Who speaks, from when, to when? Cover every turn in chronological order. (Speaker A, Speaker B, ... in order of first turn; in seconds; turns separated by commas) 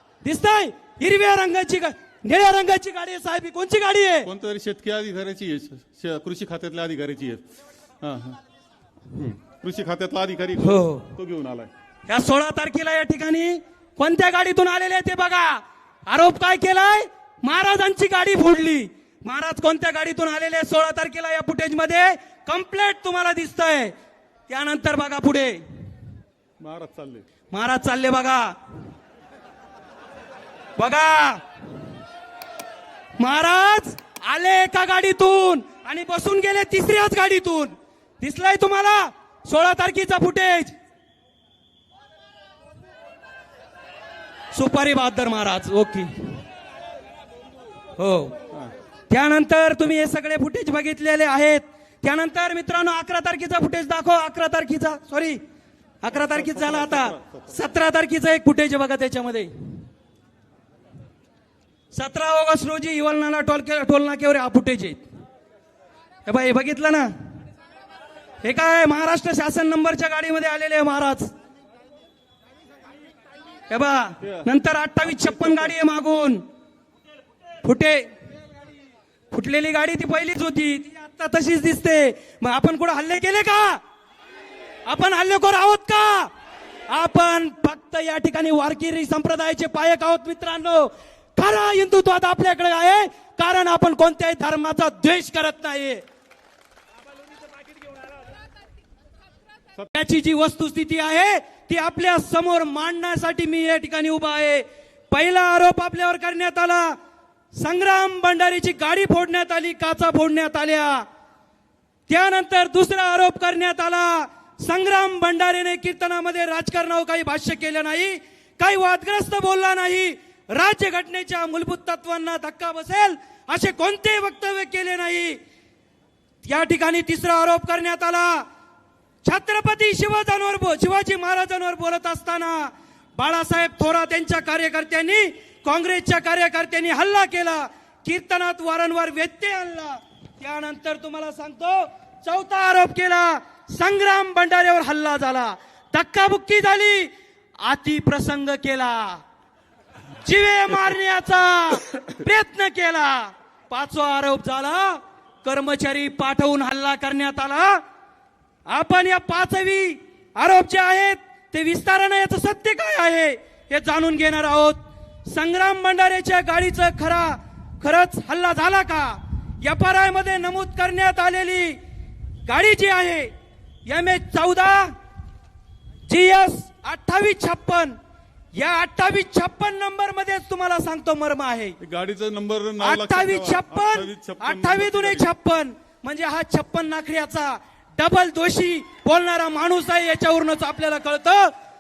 Speaker A: 0.2-4.3, Speaker B: 4.2-7.4, Speaker B: 8.0-8.4, Speaker B: 9.1-11.7, Speaker A: 10.6-11.1, Speaker A: 12.1-23.9, Speaker A: 24.5-25.6, Speaker B: 26.6-27.2, Speaker A: 27.5-28.5, Speaker A: 30.8-31.4, Speaker A: 33.2-40.7, Speaker A: 44.5-46.1, Speaker A: 48.0-48.3, Speaker A: 49.1-55.4, Speaker A: 56.0-59.5, Speaker B: 56.1-57.6, Speaker A: 61.9-65.0, Speaker A: 66.2-67.1, Speaker A: 68.4-71.3, Speaker A: 73.7-76.4, Speaker B: 75.0-75.7, Speaker A: 77.6-78.0, Speaker A: 79.3-83.8, Speaker A: 84.8-86.3, Speaker A: 86.9-96.0, Speaker A: 99.9-107.0, Speaker A: 107.5-111.0, Speaker A: 112.1-125.4, Speaker A: 126.4-128.4, Speaker A: 129.2-149.2, Speaker A: 150.2-157.8, Speaker A: 158.7-171.8, Speaker A: 172.5-173.3, Speaker A: 173.8-174.9, Speaker A: 176.1-177.9, Speaker A: 178.5-181.8, Speaker B: 181.8-185.3, Speaker A: 182.8-191.5